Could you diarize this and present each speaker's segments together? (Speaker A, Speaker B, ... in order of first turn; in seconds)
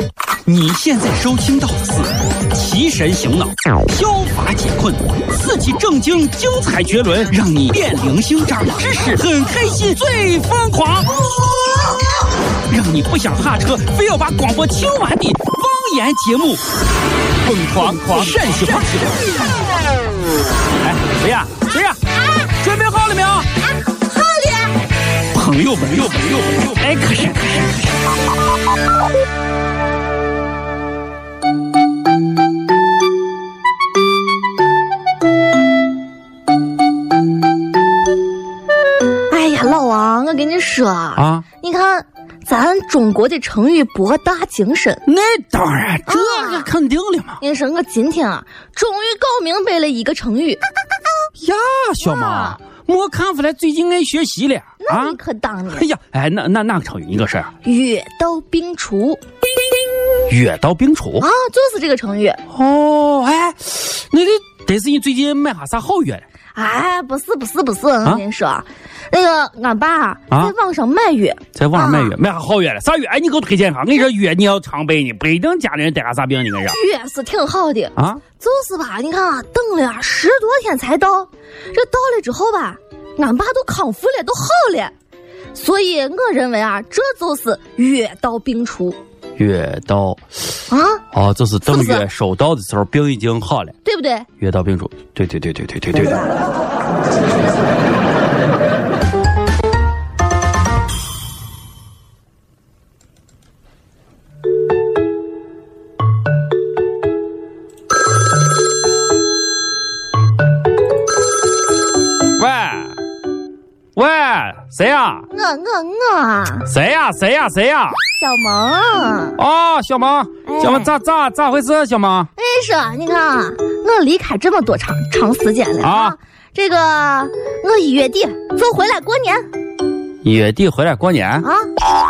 Speaker A: 0.5-11.2, 12.7-16.6, 17.4-19.2, 20.8-23.5, 25.3-27.9, 41.2-41.4, 45.0-47.4, 51.4-55.2, 55.7-57.5, 60.3-61.3, 62.5-66.2, 71.5-76.8, 78.0-78.2, 89.4-90.2, 91.1-93.8, 94.4-96.2, 112.3-113.0, 113.9-115.3, 116.7-118.0, 119.4-122.3, 125.8-126.2, 130.2-131.4
Speaker B: 23.8-24.7, 39.3-45.0, 46.1-46.7, 47.4-50.6, 52.0-52.5, 54.8-55.9, 57.6-59.2, 61.2-62.4, 66.5-72.1, 76.7-84.9, 85.5-89.0, 90.7-91.0, 91.7-92.0, 93.8-94.3, 115.3-116.7, 118.2-119.4, 120.5-120.9, 122.3-129.4, 131.4-131.7